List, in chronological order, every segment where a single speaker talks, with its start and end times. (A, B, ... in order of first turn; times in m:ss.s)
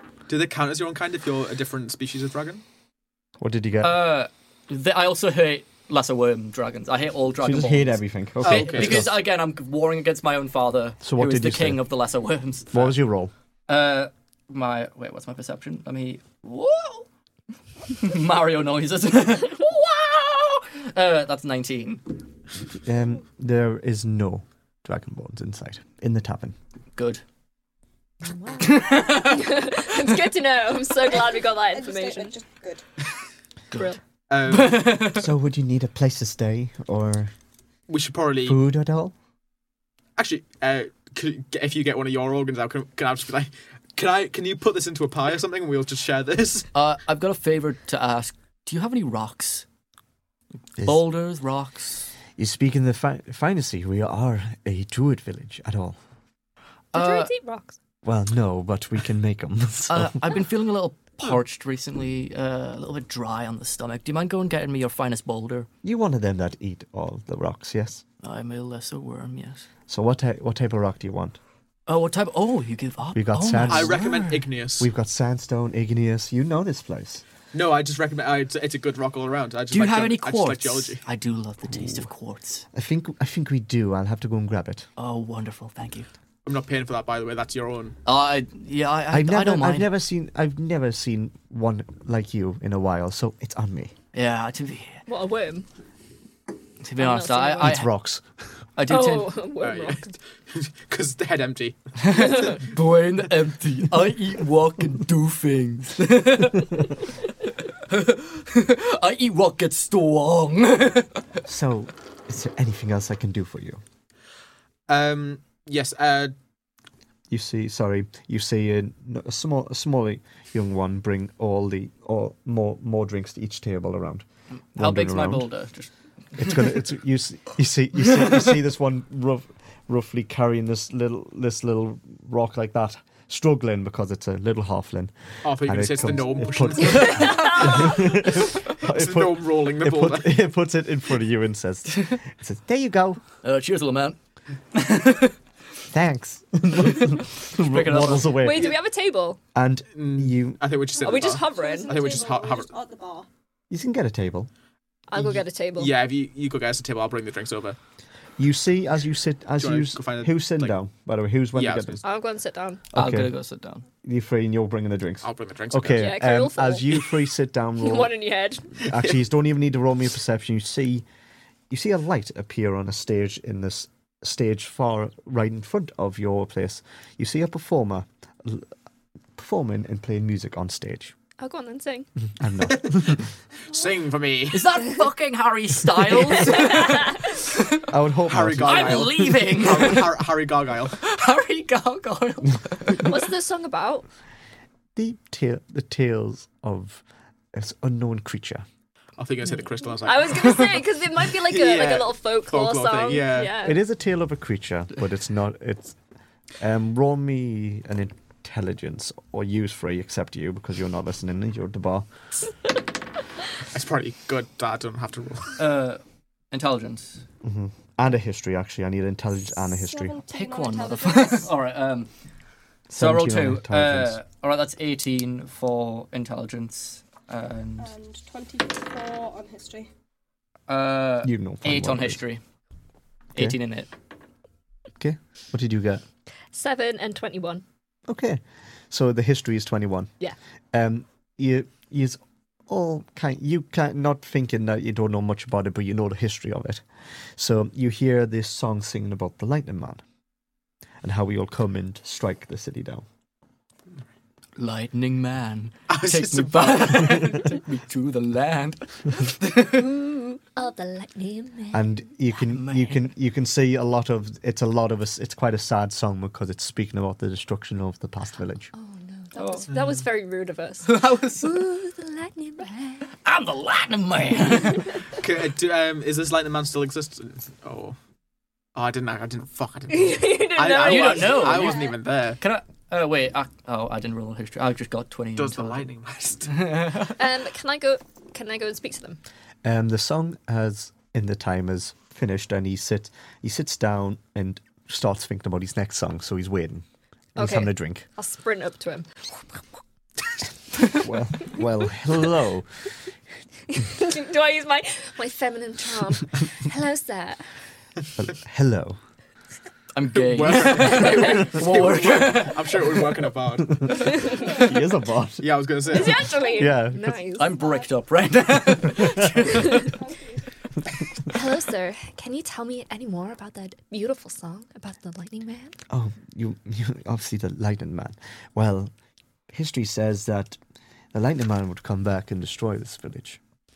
0:00.3-0:02.6 A
0:03.4-0:04.0 B
0:03.8-0:13.0 C
0:07.4-0:09.2 B
0:08.4-0:09.1 A
0:11.0-0:11.9 B
0:12.7-0:13.3 B
0:13.7-0:17.1 C
0:17.9-0:22.0 C
0:22.8-0:26.6 B
0:27.0-0:27.2 C
0:28.2-0:32.3 D
0:28.6-0:29.6 C
0:31.1-0:32.8 E
0:33.7-0:35.3 C
0:33.7-0:34.0 D
0:34.3-0:35.0 A
0:35.1-0:37.3 B
0:37.9-0:38.6 A
0:38.4-0:39.1 B
0:40.2-0:46.7 A
0:46.7-0:49.6 C
0:50.8-0:51.0 B
0:50.8-0:52.1 C
0:52.4-0:56.0 B
0:56.9-0:57.3 C
0:56.9-0:57.7 D
0:58.0-1:00.4 B
0:59.9-1:05.7 C
1:05.8-1:08.0 B
1:08.2-1:09.7 C
1:09.9-1:11.4 B
1:11.9-1:14.4 C
1:13.1-1:14.0 B
1:13.6-1:14.9 A
1:14.8-1:17.2 B
1:17.5-1:21.0 A
1:19.7-1:22.6 C
1:22.7-1:24.9 B
1:25.0-1:26.1 C
1:26.4-1:28.0 A
1:28.0-1:29.9 C
1:29.1-1:33.9 B
1:34.1-1:35.0 C
1:35.1-1:35.6 D
1:36.8-1:37.9 C
1:37.0-1:37.8 D
1:37.6-1:38.2 B
1:38.8-1:39.4 C
1:38.9-1:40.1 D
1:39.6-1:42.4 A
1:42.0-1:47.1 C
1:47.9-1:51.2 C
1:51.4-1:53.8 B
1:54.9-1:56.3 A
1:57.3-2:05.5 B
2:04.7-2:06.6 C
2:06.4-2:23.2 B
2:15.4-2:20.3 A
2:16.9-2:18.1 D
2:23.4-2:24.2 C
2:24.7-2:25.3 C
2:25.9-2:28.8 B
2:26.9-2:28.5 C
2:28.4-2:29.4 D
2:29.5-2:30.7 B
2:29.9-2:32.7 A
2:31.0-2:33.3 E
2:31.0-2:32.0 D
2:33.7-2:34.5 B
2:35.1-2:35.9 D
2:35.2-2:37.8 A
2:38.4-2:42.0 B
2:39.6-2:40.7 A
2:41.5-2:42.0 A
2:42.0-2:42.8 D
2:42.9-2:43.3 B
2:42.9-2:43.8 C
2:44.0-2:48.1 B
2:45.2-2:46.1 A
2:45.9-2:47.2 D
2:47.8-2:48.9 D
2:48.8-2:51.0 B
2:51.7-2:58.7 B
2:59.4-3:01.1 B
3:01.4-3:02.1 D
3:02.4-3:03.2 B
3:02.9-3:03.2 A
3:03.7-3:04.6 A
3:04.5-3:07.8 C
3:06.4-3:07.1 D
3:07.9-3:09.4 B
3:08.3-3:11.0 A
3:08.6-3:10.2 C
3:10.9-3:13.2 C
3:13.0-3:14.0 D
3:15.0-3:18.6 B
3:19.2-3:20.8 A
3:20.0-3:23.8 D
3:21.4-3:23.5 A
3:23.6-3:26.0 B
3:26.6-3:32.1 B
3:33.7-3:35.5 A
3:35.6-3:37.2 C
3:37.4-3:40.2 B
3:39.7-3:41.5 E
3:40.3-3:42.1 C
3:42.9-3:44.2 B
3:42.9-3:47.9 C
3:47.8-3:49.9 E
3:50.7-3:52.4 C
3:51.2-3:52.2 B
3:53.4-3:53.9 C
3:55.0-3:56.0 B
3:56.5-3:57.6 D
3:58.1-4:00.1 B
4:00.7-4:10.0 B
4:11.0-4:13.0 B
4:14.6-4:19.9 C
4:15.9-4:17.4 A
4:19.7-4:21.9 D
4:21.7-4:28.7 B
4:22.4-4:23.1 C
4:28.7-4:33.1 D
4:29.4-4:29.7 C
4:30.8-4:31.6 C
4:33.2-4:35.0 C
4:35.2-4:38.0 A
4:38.7-4:42.4 A
4:39.9-4:42.0 D
4:40.7-4:41.8 C
4:42.4-4:45.9 C
4:45.4-4:46.7 A
4:46.6-4:47.2 C
4:47.1-4:49.2 D
4:49.6-4:58.0 B
4:57.4-4:59.1 D
5:01.0-5:02.7 B
5:03.7-5:07.4 D
5:08.2-5:09.0 B
5:09.9-5:13.0 C
5:10.1-5:14.2 A
5:10.7-5:11.5 D
5:13.8-5:14.0 B
5:13.9-5:14.6 D
5:14.2-5:14.7 E
5:14.6-5:15.6 B
5:15.4-5:16.3 A
5:15.9-5:17.5 D
5:16.2-5:16.7 E
5:16.5-5:17.2 B
5:17.3-5:19.9 C
5:17.5-5:17.9 E
5:19.5-5:19.9 D
5:19.7-5:20.4 E
5:21.3-5:25.8 D
5:25.9-5:28.9 B
5:29.5-5:30.6 B
5:31.1-5:33.4 B